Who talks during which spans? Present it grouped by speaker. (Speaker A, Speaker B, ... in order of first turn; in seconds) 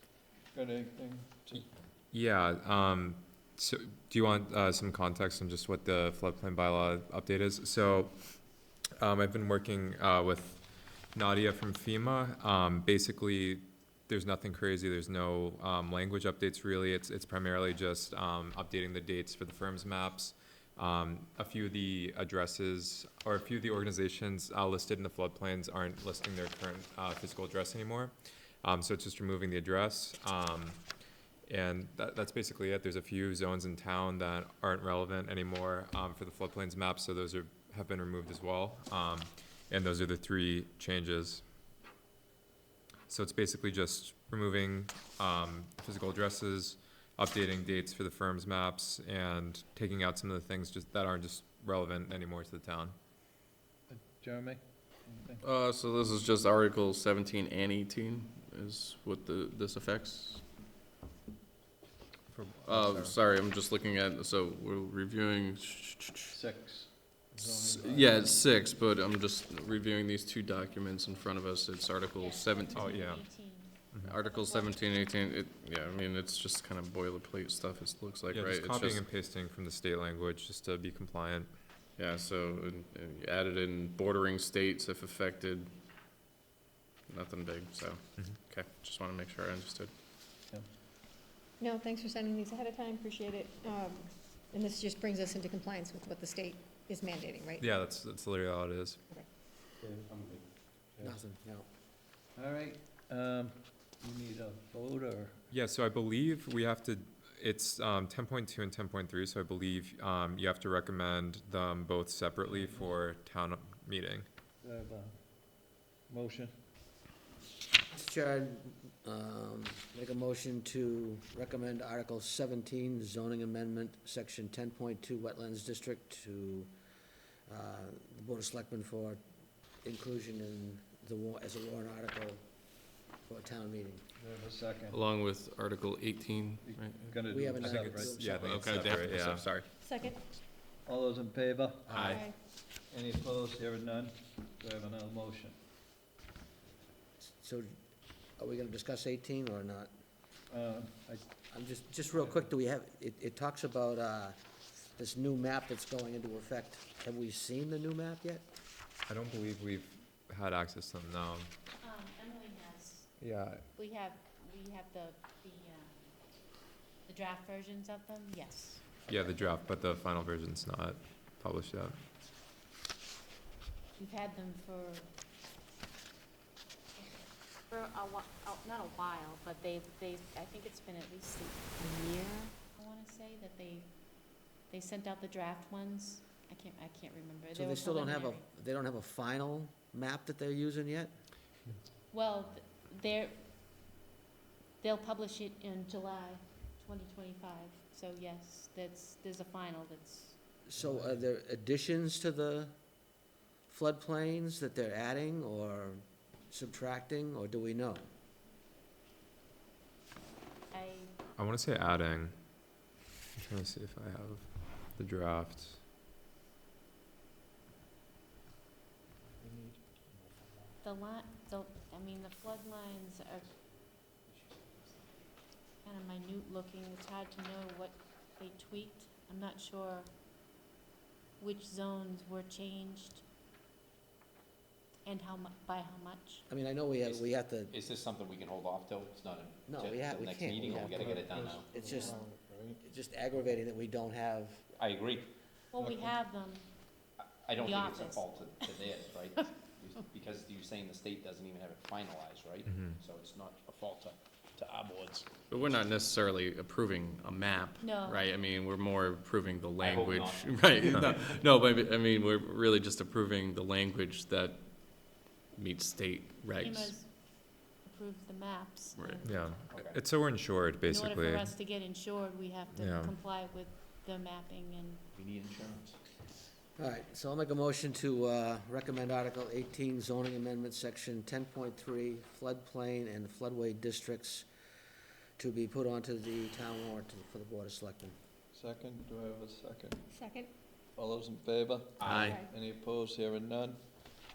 Speaker A: 0.5-1.7, 53.9-55.5, 66.3-68.4, 102.4-105.5, 112.5-113.0, 114.6-115.4, 116.1-116.6, 134.2-135.0, 136.6-138.3, 140.8-142.3, 142.9-145.6, 150.5-151.2, 200.8-201.2, 219.4-219.8, 240.6-242.8, 245.8-246.1, 288.5-290.1, 291.0-293.8
Speaker B: 2.1-8.1, 9.0-30.8, 31.5-41.4, 43.1-53.0, 62.3-63.2, 72.7-73.4, 78.3-81.5, 97.6-99.0, 105.5-114.3, 137.6-139.5, 141.9-142.2, 159.1-161.5, 163.2-163.6, 169.1-172.0, 211.4-212.3, 213.4-215.8, 269.2-271.5, 272.8-273.1
Speaker C: 55.4-60.4, 62.6-66.4, 67.4-72.9, 74.0-79.0, 82.0-85.7, 87.1-89.9, 134.9-137.2, 138.4-139.7, 255.5-266.9, 269.0-269.2
Speaker D: 72.2-74.9, 161.8-163.1, 163.8-166.2, 167.1-168.8, 174.0-175.1, 177.0-181.8, 182.8-183.9, 184.7-188.5, 192.1-193.4, 194.8-200.4, 210.7-211.1, 220.8-223.5, 225.8-230.1, 231.4-233.2, 235.1-236.4, 245.7-246.7, 247.6-248.7, 257.8-258.2, 266.5-269.6, 270.9-275.0
Speaker E: 91.6-97.7, 139.8-140.4, 142.1-142.3, 181.8-182.5, 290.1-290.5, 292.3-292.5
Speaker F: 101.0-101.7, 117.9-126.7, 127.5-129.2, 129.8-132.4, 133.2-134.0, 137.3-138.7, 141.9-142.2, 147.2-147.7, 148.4-149.9, 151.5-154.4, 155.0-158.5, 187.5-191.1, 200.7-202.7, 203.7-208.1, 236.5-237.7, 239.7-242.2, 242.8-244.7, 276.8-284.5, 285.4-288.2, 292.1-292.4
Speaker G: 237.0-242.2, 244.8-245.3, 247.2-255.3, 259.8-261.3, 269.7-270.0, 275.1-276.0, 292.0-292.4